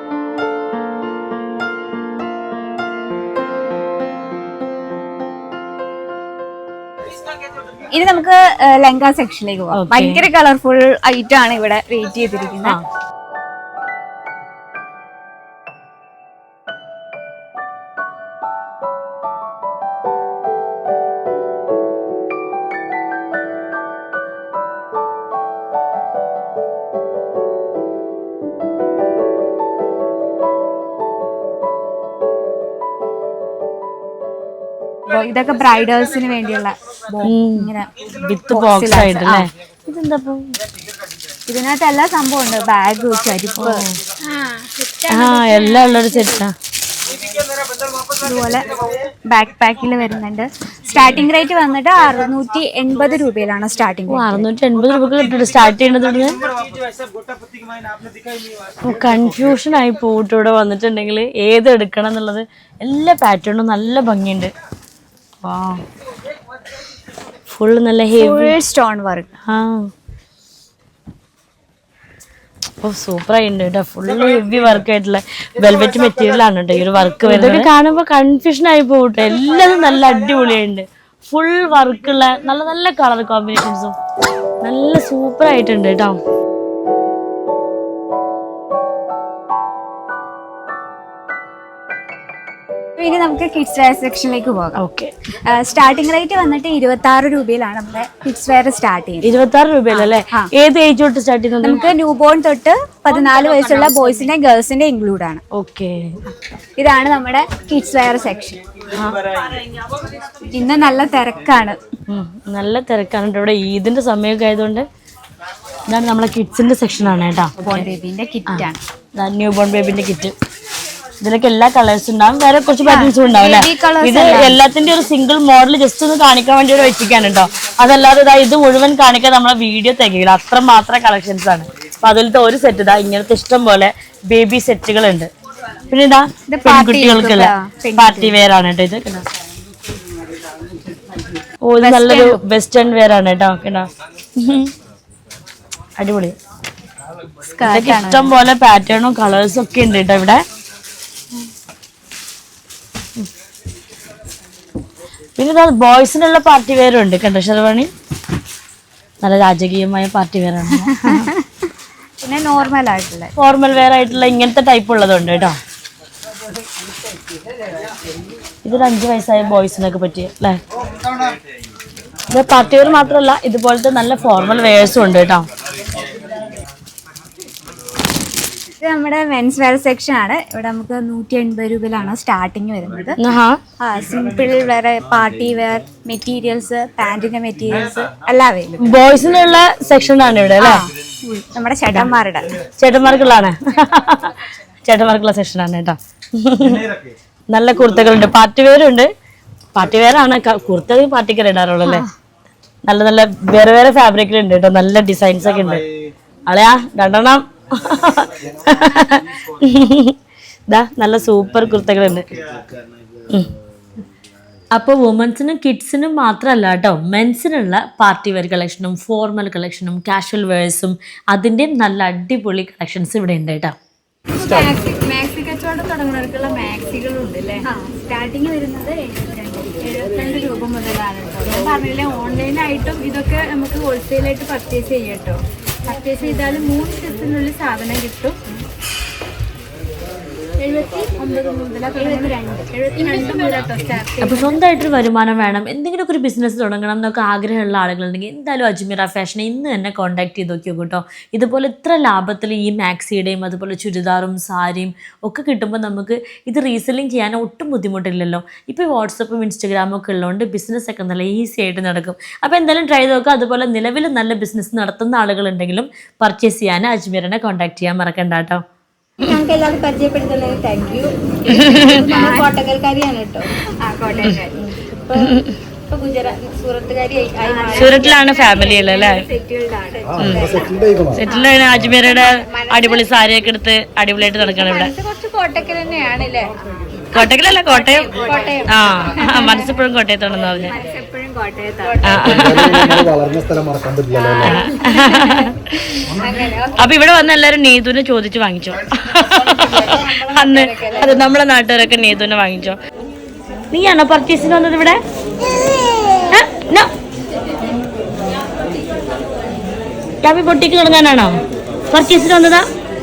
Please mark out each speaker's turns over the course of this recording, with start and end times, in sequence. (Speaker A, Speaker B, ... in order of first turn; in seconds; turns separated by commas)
Speaker A: 7.9-12.8, Speaker B: 9.7-10.2, Speaker A: 35.1-37.9, Speaker B: 37.2-40.5, Speaker A: 38.5-39.5, Speaker A: 41.5-43.9, Speaker B: 43.6-44.0, Speaker C: 44.2-46.3, Speaker B: 45.1-46.5, Speaker A: 48.2-48.7, Speaker A: 49.3-54.4, Speaker B: 54.1-56.4, Speaker B: 58.8-64.5, Speaker B: 65.4-65.8, Speaker B: 67.5-68.5, Speaker A: 68.1-69.3, Speaker B: 69.5-69.9, Speaker B: 72.8-84.0, Speaker A: 77.3-77.7, Speaker B: 84.6-86.2, Speaker A: 93.0-94.8, Speaker B: 94.8-95.1, Speaker A: 95.4-99.3, Speaker B: 99.2-101.9, Speaker A: 99.9-100.5, Speaker A: 101.6-105.4, Speaker C: 103.5-104.1, Speaker B: 105.5-106.1, Speaker A: 106.8-108.6, Speaker A: 110.5-111.8, Speaker B: 112.1-114.9, Speaker B: 115.9-117.8, Speaker A: 117.6-118.8, Speaker B: 118.5-120.3, Speaker B: 121.2-135.3, Speaker A: 122.8-124.6, Speaker B: 135.9-139.2, Speaker A: 136.5-138.4, Speaker B: 141.6-144.7, Speaker A: 141.8-142.4, Speaker B: 146.0-146.3, Speaker A: 147.4-148.3, Speaker B: 147.6-150.4, Speaker B: 155.4-157.9, Speaker B: 159.2-161.3, Speaker A: 160.7-163.3, Speaker B: 163.3-165.6, Speaker B: 168.6-170.6, Speaker B: 172.3-175.5, Speaker A: 178.8-183.2, Speaker B: 183.2-183.6, Speaker A: 183.8-188.9, Speaker B: 188.8-190.8, Speaker A: 190.6-192.5, Speaker B: 192.8-196.8, Speaker B: 197.5-199.1, Speaker B: 199.7-202.1, Speaker A: 201.8-202.1, Speaker B: 202.8-205.8, Speaker B: 206.5-210.2, Speaker B: 210.7-212.3, Speaker B: 214.7-223.8, Speaker C: 224.3-227.7, Speaker A: 227.6-229.7, Speaker C: 229.8-238.4, Speaker C: 240.6-244.6, Speaker A: 242.0-242.7, Speaker B: 244.2-268.6, Speaker C: 269.2-281.4, Speaker B: 271.5-272.0, Speaker A: 271.9-272.5, Speaker A: 273.8-274.5, Speaker B: 275.1-275.6, Speaker A: 277.4-280.2, Speaker B: 277.8-279.2, Speaker B: 280.2-280.6, Speaker B: 281.1-284.9, Speaker C: 282.0-283.1, Speaker C: 284.3-286.5, Speaker C: 287.1-289.7, Speaker B: 287.1-288.1, Speaker B: 288.7-290.7, Speaker A: 290.7-292.0, Speaker C: 291.8-293.0, Speaker B: 292.0-293.1, Speaker C: 294.1-296.8, Speaker B: 294.4-296.0, Speaker B: 296.7-302.8, Speaker C: 299.6-301.2, Speaker B: 303.7-305.0, Speaker B: 306.3-306.9, Speaker B: 310.2-311.4, Speaker B: 311.9-312.6